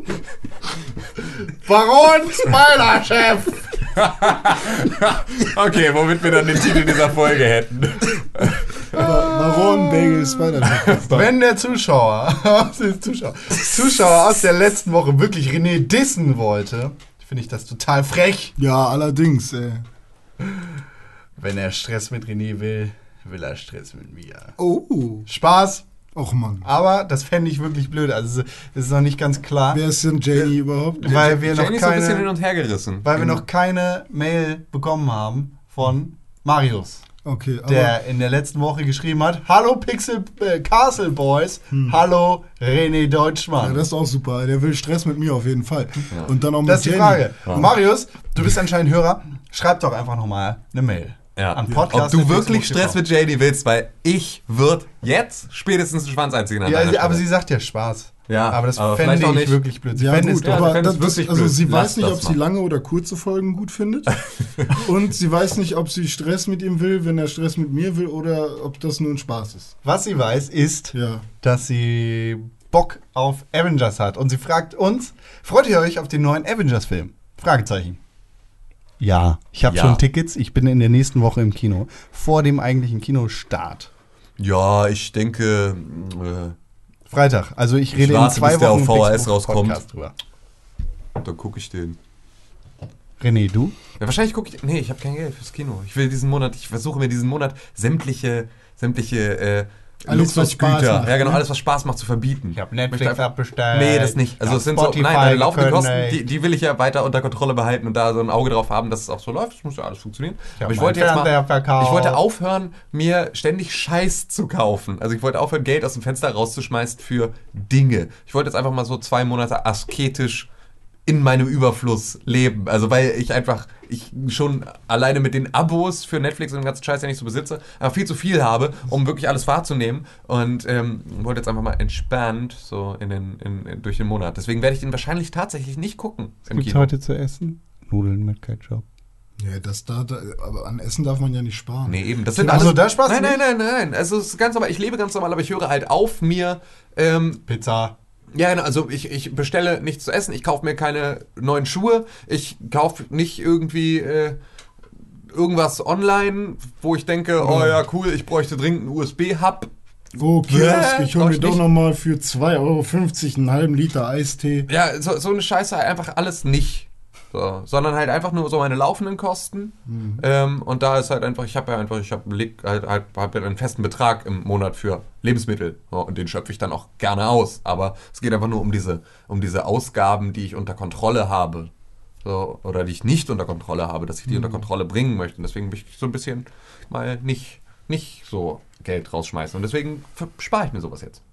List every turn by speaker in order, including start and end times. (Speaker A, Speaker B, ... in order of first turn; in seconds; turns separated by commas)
Speaker A: 1.4-3.8, Speaker B: 3.9-11.2, Speaker C: 8.9-11.2, Speaker A: 11.0-18.6, Speaker C: 18.6-19.8, Speaker A: 21.4-24.6, Speaker C: 24.6-25.3, Speaker A: 25.2-25.9, Speaker C: 26.1-26.6, Speaker A: 26.6-29.8, Speaker C: 29.7-31.2, Speaker B: 31.0-33.4, Speaker A: 31.0-32.3, Speaker A: 33.0-37.0, Speaker C: 37.2-38.0, Speaker A: 37.6-43.8, Speaker C: 43.6-47.6, Speaker A: 46.6-53.0, Speaker B: 51.4-57.2, Speaker A: 56.6-60.8, Speaker B: 58.3-59.6, Speaker C: 59.9-69.7, Speaker B: 60.4-62.4, Speaker B: 64.2-64.7, Speaker A: 69.8-78.0, Speaker C: 70.9-71.2, Speaker A: 79.0-83.9, Speaker B: 79.7-80.0, Speaker B: 84.4-86.5, Speaker A: 87.1-90.1, Speaker B: 87.9-89.8, Speaker B: 91.2-92.0, Speaker A: 93.2-93.8, Speaker B: 94.0-120.5, Speaker C: 100.0-101.4, Speaker A: 102.5-106.2, Speaker A: 110.6-112.2, Speaker B: 121.0-136.9, Speaker A: 136.5-138.8, Speaker C: 139.4-142.7, Speaker B: 141.8-147.4, Speaker A: 142.3-143.4, Speaker A: 147.5-147.9, Speaker B: 148.3-154.4, Speaker B: 155.3-159.7, Speaker C: 157.4-157.8, Speaker C: 160.2-164.7, Speaker B: 160.4-161.6, Speaker B: 164.7-181.7, Speaker C: 169.9-170.2, Speaker B: 182.2-191.2